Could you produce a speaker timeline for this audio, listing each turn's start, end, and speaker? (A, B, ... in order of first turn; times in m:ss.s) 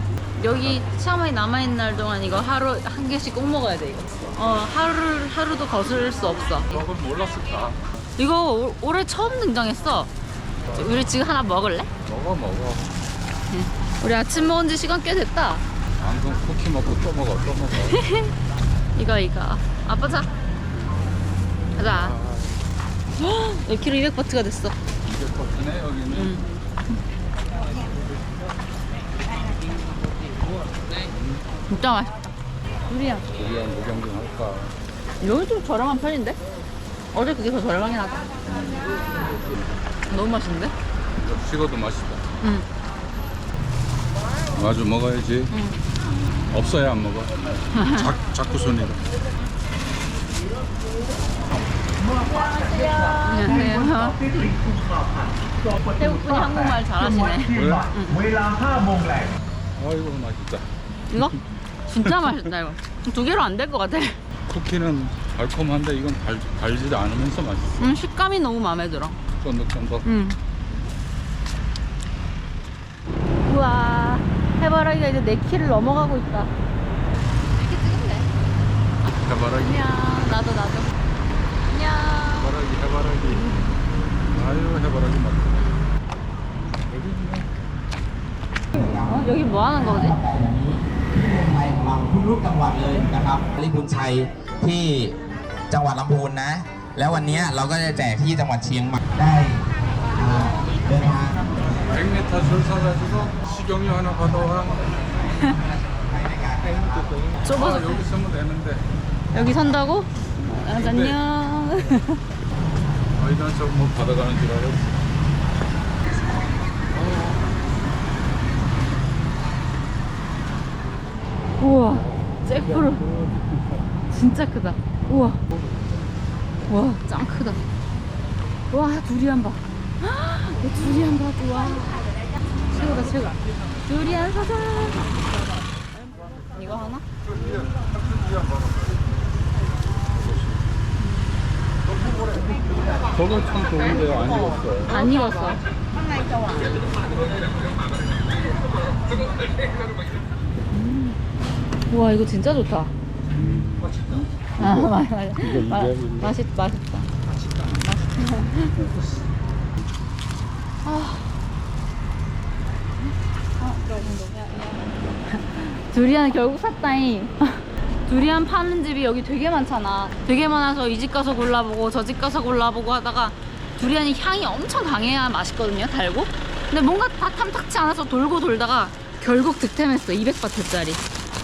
0:00.4-0:06.8 A
0:06.7-0:07.8 B
0:08.2-0:10.1 A
0:10.7-0:11.9 A
0:12.0-0:13.0 B
0:13.5-0:15.6 A
0:16.0-0:18.0 B
0:17.7-0:18.3 A
0:18.9-0:20.3 A
0:21.8-0:22.2 A
0:21.9-0:22.6 B
0:23.2-0:24.8 A
0:25.0-0:26.4 B
0:26.1-0:26.5 A
0:31.1-0:31.4 B
0:31.7-0:32.3 A
0:32.9-0:33.3 A
0:33.3-0:34.8 B
0:35.2-0:36.4 A
0:37.1-0:38.3 A
0:38.4-0:39.6 B
0:40.1-0:40.7 A
0:41.2-0:42.2 B
0:42.4-0:42.7 A
0:44.5-0:45.5 B
0:45.5-0:45.8 A
0:46.5-0:49.0 B
0:47.7-0:48.1 A
0:52.2-0:54.6 A
0:55.9-0:58.3 A
0:57.5-0:57.9 B
0:59.7-1:01.3 B
1:01.1-1:04.2 A
1:02.1-1:02.3 B
1:04.5-1:07.9 B
1:07.8-1:09.2 A
1:09.4-1:10.1 B
1:10.0-1:10.4 A
1:13.4-1:16.5 A
1:17.6-1:18.3 A
1:19.1-1:20.0 B
1:19.6-1:20.9 A
1:21.7-1:22.5 A
1:22.4-1:23.5 B
1:24.3-1:25.6 B
1:26.9-1:27.5 B
1:28.7-1:29.3 C
1:28.7-1:30.2 A
1:29.9-1:35.2 C
1:35.7-1:41.4 C
1:41.9-1:45.0 B
1:45.3-1:45.6 A
1:46.6-1:48.8 B
1:47.4-1:48.0 A
1:49.3-1:52.2 A
1:50.6-1:51.2 B
1:53.2-1:55.0 B
1:56.9-1:57.4 B
2:01.6-2:03.1 A
2:02.7-2:03.5 B
2:04.1-2:05.4 A
2:06.7-2:07.7 A
2:08.7-2:12.1 A
2:12.7-2:15.2 A
2:16.5-2:17.0 A
2:17.2-2:18.9 B
2:20.1-2:20.6 B
2:21.0-2:21.3 A
2:23.1-2:25.1 B
2:24.9-2:25.6 A
2:26.3-2:26.7 A
2:30.7-2:31.2 A
2:31.9-2:32.9 A
2:33.3-2:36.4 B
2:34.6-2:37.1 A
2:37.8-2:38.9 A
2:40.8-2:41.4 A
2:43.6-3:01.0 A